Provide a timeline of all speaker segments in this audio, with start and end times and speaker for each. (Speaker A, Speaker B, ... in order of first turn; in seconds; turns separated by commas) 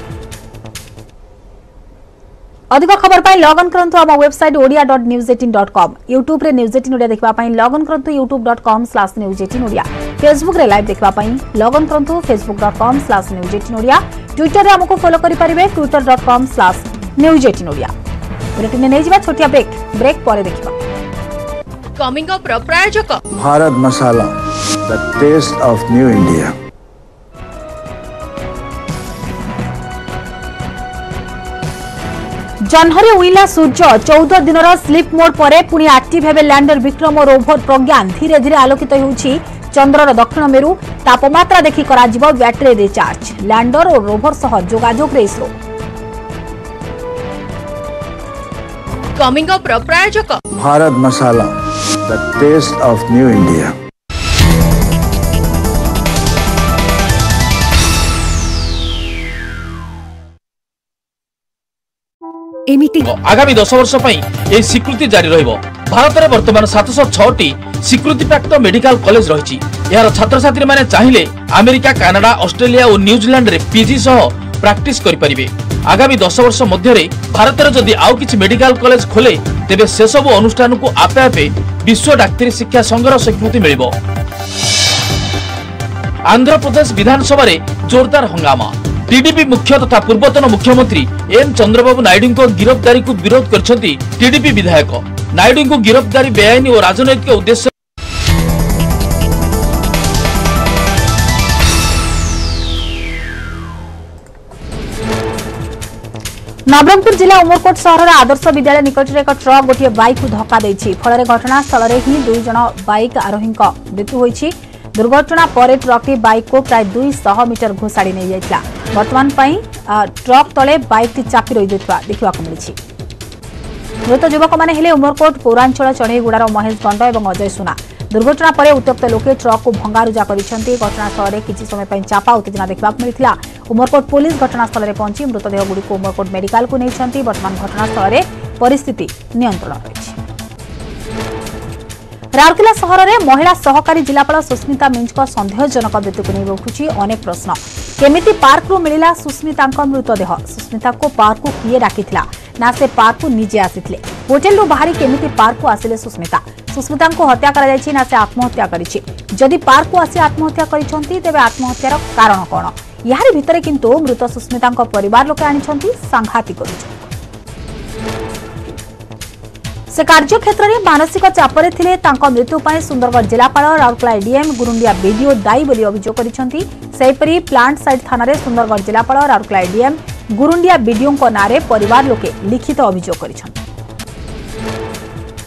Speaker A: 2.7-17.9, Speaker A: 18.6-20.8, Speaker B: 22.0-23.2, Speaker C: 23.3-24.3, Speaker C: 24.9-26.5, Speaker A: 32.6-45.5, Speaker B: 49.2-50.4, Speaker C: 50.5-51.5, Speaker C: 52.0-53.8, Speaker D: 63.0-83.9, Speaker D: 86.3-97.7, Speaker A: 106.7-122.8, Speaker A: 124.1-140.2, Speaker A: 142.3-167.1, Speaker A: 169.9-183.6